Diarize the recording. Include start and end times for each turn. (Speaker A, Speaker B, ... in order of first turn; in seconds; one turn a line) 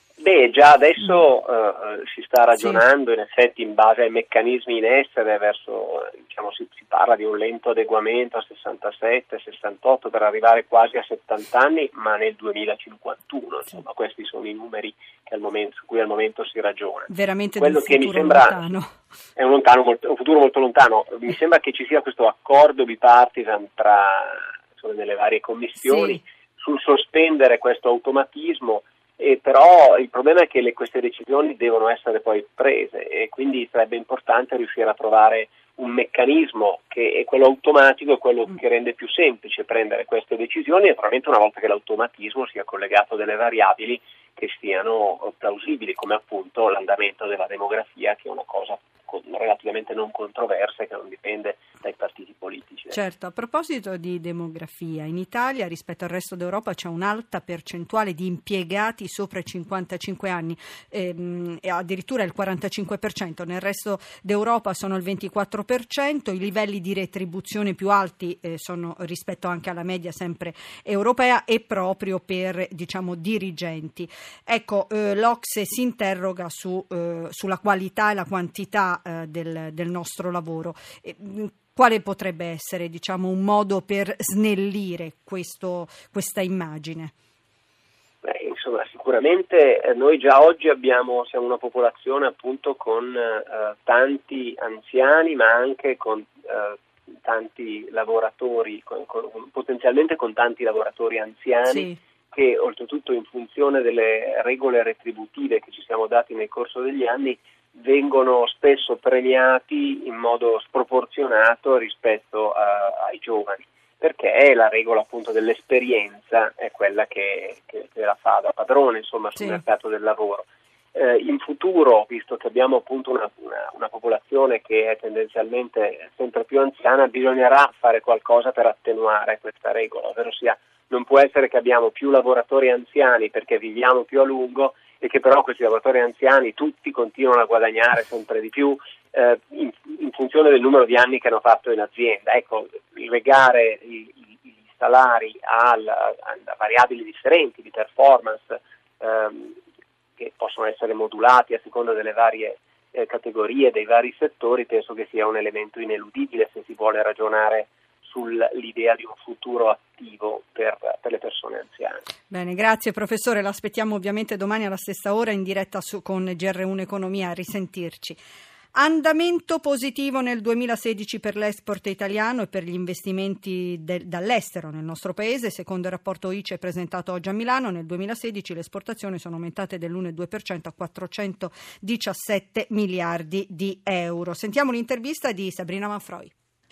Speaker A: 0.2-18.6
Speaker B: 2.5-2.8
Speaker B: 17.1-18.9
Speaker A: 19.4-53.0
Speaker B: 25.8-26.2
Speaker B: 52.9-87.1
Speaker A: 88.2-149.6
Speaker B: 101.7-102.0
Speaker B: 119.3-119.6
Speaker A: 150.2-162.0
Speaker B: 162.3-168.2
Speaker B: 168.7-186.3